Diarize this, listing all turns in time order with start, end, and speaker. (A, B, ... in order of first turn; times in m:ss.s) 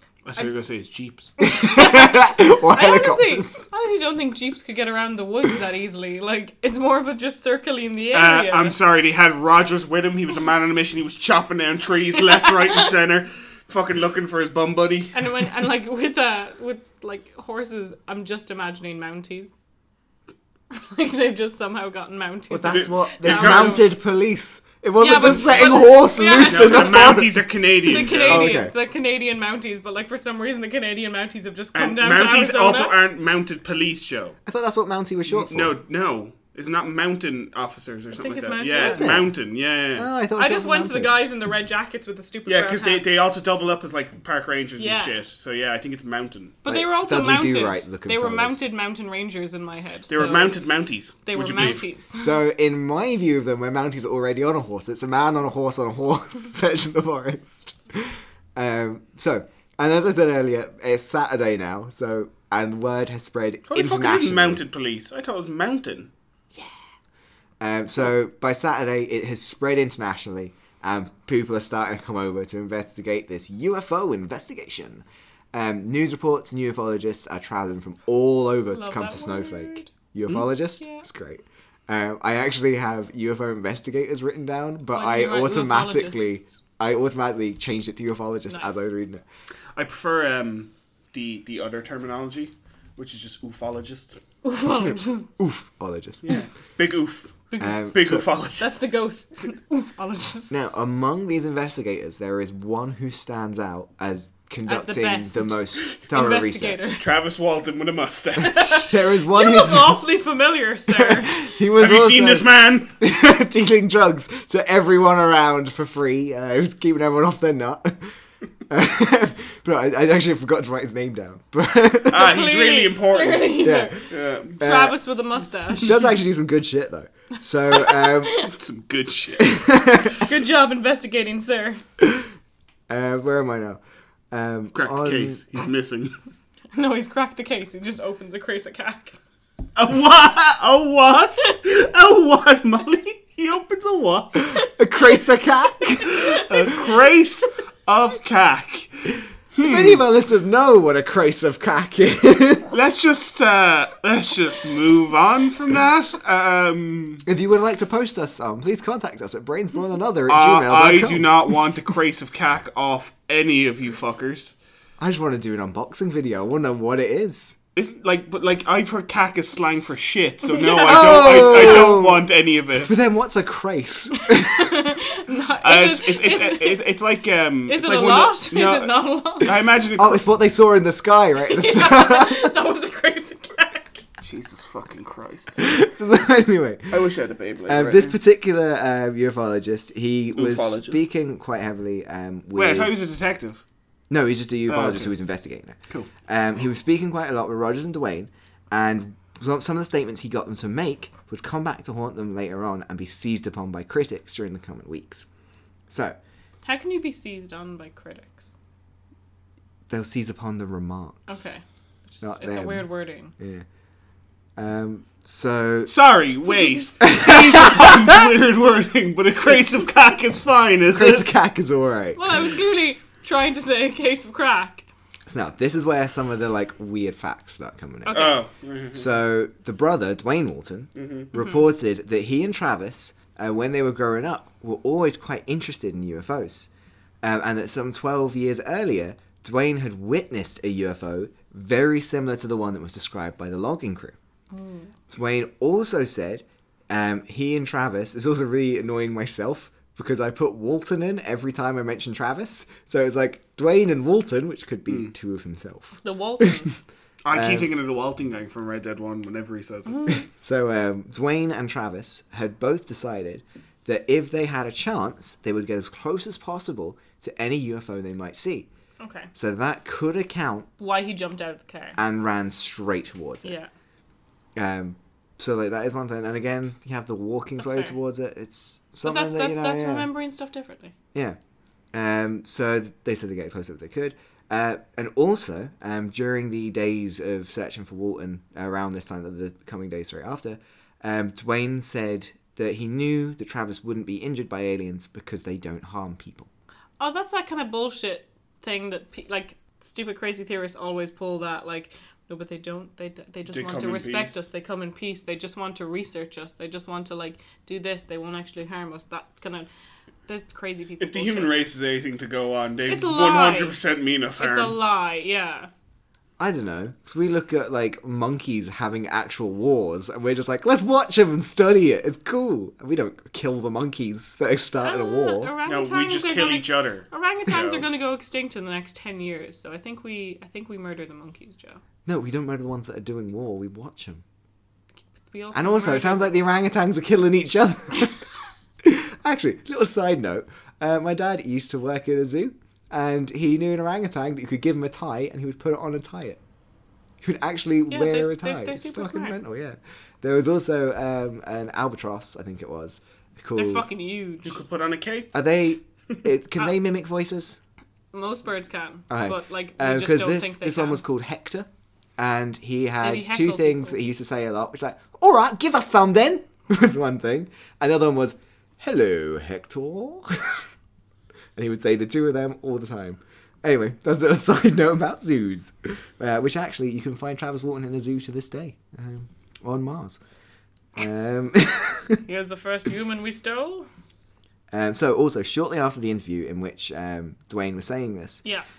0:00.2-0:01.3 A
0:01.4-0:03.7 B
0:01.5-0:08.8 C
0:08.1-0:15.4 A
0:15.1-0:19.6 C
0:20.7-0:23.8 C
0:22.5-0:28.7 B
0:22.7-0:23.8 A
0:25.0-0:27.2 C
0:26.4-0:28.7 A
0:27.9-0:33.0 C
0:31.8-0:34.4 A
0:34.5-0:35.8 B
0:35.3-0:40.1 A
0:38.2-0:39.1 C
0:38.8-0:39.4 B
0:40.0-0:41.2 B
0:40.4-0:43.3 C
0:42.5-0:46.6 A
0:44.8-0:45.2 C
0:46.6-0:50.6 C
0:46.7-0:48.7 B
0:50.1-0:51.8 A
0:51.2-0:52.3 C
0:52.2-1:04.6 B
1:03.7-1:06.1 A
1:07.6-1:29.2 B
1:18.7-1:19.9 C
1:24.9-1:26.3 C
1:28.5-1:28.8 C
1:29.8-1:34.2 A
1:34.4-1:35.4 C
1:35.4-1:36.3 B
1:36.2-1:37.4 A
1:37.5-1:37.9 C
1:37.6-1:38.2 B
1:37.9-1:38.8 A
1:38.6-1:40.7 C
1:40.5-1:46.8 B
1:44.7-1:47.0 C
1:47.0-1:49.0 A
1:48.4-1:51.4 C
1:48.8-1:50.0 B
1:50.9-1:58.1 B
1:51.8-1:52.9 A
1:58.7-2:02.3 B
2:02.1-2:04.6 A
2:02.1-2:06.0 C
2:03.6-2:04.0 B
2:04.6-2:05.0 B
2:05.8-2:08.5 B
2:07.7-2:08.5 C
2:08.4-2:09.6 A
2:09.4-2:10.2 B
2:10.1-2:11.8 C
2:12.0-2:12.3 B
2:12.9-2:13.8 B
2:14.3-2:15.4 B
2:14.7-2:16.2 A
2:16.7-2:19.2 C
2:19.8-2:24.5 A
2:24.4-2:26.2 B
2:26.0-2:30.0 A
2:26.1-2:26.7 C
2:29.6-2:32.7 B
2:32.7-2:37.2 A
2:37.2-2:41.3 B
2:40.3-2:44.6 A
2:45.0-2:47.6 B
2:47.8-2:52.9 A
2:50.6-2:51.1 C
2:50.8-2:52.3 B
2:52.8-2:54.8 B
2:54.2-2:56.8 C
2:55.6-3:00.3 A
2:57.7-2:59.5 C
3:00.0-3:02.5 B
3:01.4-3:04.0 C
3:04.2-3:05.6 A
3:05.6-3:07.0 B
3:06.9-3:08.2 A
3:07.6-3:12.9 B
3:10.4-3:11.0 A
3:12.6-3:13.6 A
3:14.1-3:25.3 B
3:14.7-3:15.1 A
3:25.9-3:26.2 B
3:26.6-3:28.5 C
3:29.9-3:31.5 B
3:31.3-3:33.3 C
3:32.2-3:32.9 B
3:33.4-3:33.7 B
3:34.6-3:35.9 B
3:35.9-3:41.3 A
3:37.0-3:38.2 B
3:40.9-3:42.2 B
3:42.2-3:44.9 C
3:45.3-3:48.4 B
3:48.0-3:48.4 C
3:48.1-3:49.1 A
3:48.9-3:56.7 B
3:51.0-3:51.3 A
3:57.2-4:04.2 B
4:04.5-4:04.9 C
4:05.1-4:16.7 B
4:16.0-4:16.8 C
4:17.2-4:20.2 A
4:17.3-4:17.7 B
4:20.1-4:28.7 B
4:29.0-4:29.3 C
4:29.4-4:30.7 B
4:30.8-4:32.0 C
4:32.0-4:33.5 B
4:34.6-4:40.1 B
4:37.6-4:38.0 C
4:39.0-4:40.9 C
4:41.9-4:56.5 B
4:57.0-5:09.7 C
5:03.5-5:04.4 A
5:10.3-5:11.6 C
5:11.0-5:14.8 A
5:12.9-5:13.8 C
5:14.4-5:15.7 C
5:16.4-5:25.5 B
5:24.8-5:31.8 C
5:25.7-5:27.9 A
5:32.1-5:34.2 B
5:35.3-5:36.4 C
5:35.5-5:38.2 B
5:38.8-5:46.4 B
5:47.2-5:53.9 B
5:47.9-5:49.4 C
5:53.6-5:54.6 C
5:54.4-5:55.3 A
5:55.3-5:57.6 B
5:58.1-6:01.0 C
5:59.1-6:01.7 B
6:02.2-6:10.7 B
6:03.0-6:04.0 C
6:11.6-6:20.2 B
6:21.0-6:22.2 B
6:22.3-6:23.9 C
6:24.7-6:28.4 B